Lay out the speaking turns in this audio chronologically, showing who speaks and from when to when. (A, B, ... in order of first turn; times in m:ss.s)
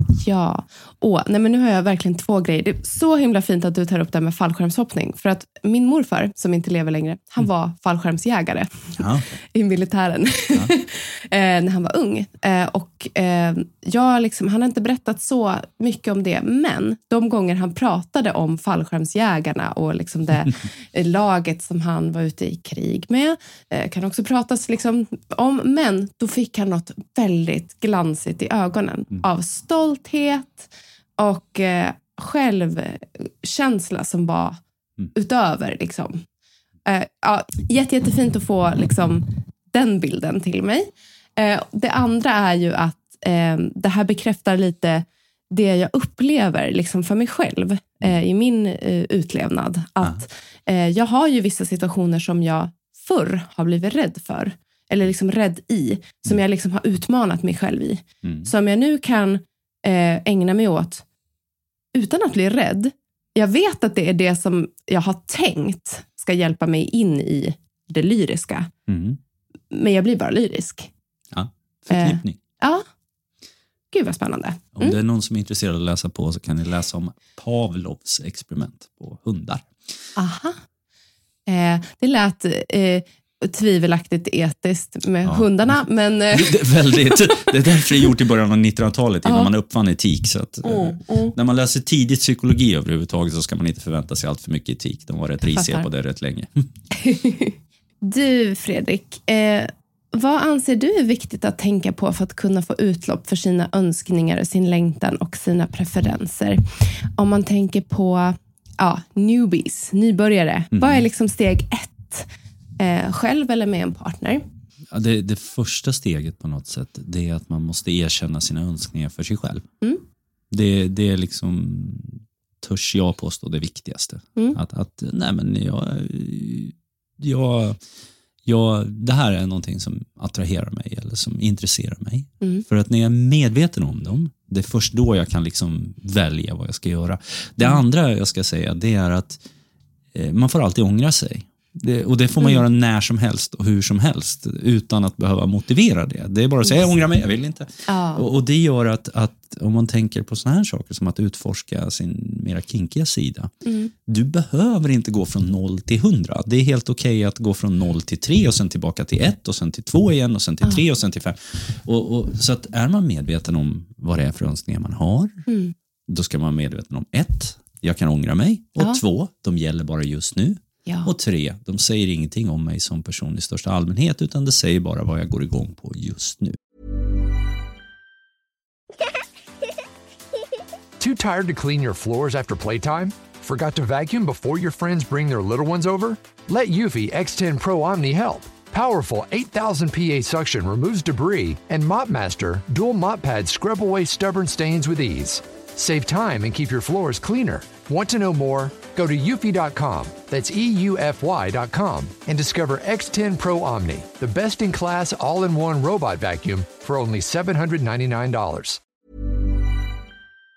0:00.1-0:34.6 A
0:09.0-0:09.3 B
0:35.1-0:36.2 A
0:36.8-1:01.0 A
0:58.2-0:58.5 B
1:01.9-1:08.7 A
1:08.9-1:09.2 B
1:09.7-1:10.9 A
1:11.3-1:12.4 B
1:11.9-1:12.8 A
1:13.9-1:15.0 A
1:14.8-1:19.7 B
1:20.2-1:20.6 A
1:21.5-1:27.5 A
1:25.2-1:25.8 B
1:26.3-1:36.6 B
1:29.2-1:29.5 A
1:30.6-1:31.3 A
1:35.6-1:35.8 A
1:36.9-1:46.6 A
1:47.2-1:54.4 A
1:50.7-1:51.0 B
1:54.9-1:59.7 B
2:00.5-2:07.8 B
2:08.4-2:19.4 B
2:12.4-2:12.6 A
2:20.1-2:33.5 B
2:27.9-2:28.2 A
2:33.6-2:33.9 A
2:34.0-2:45.4 B
2:45.5-2:45.7 A
2:46.1-2:56.6 B
2:50.8-2:51.1 A
3:01.0-3:28.8 C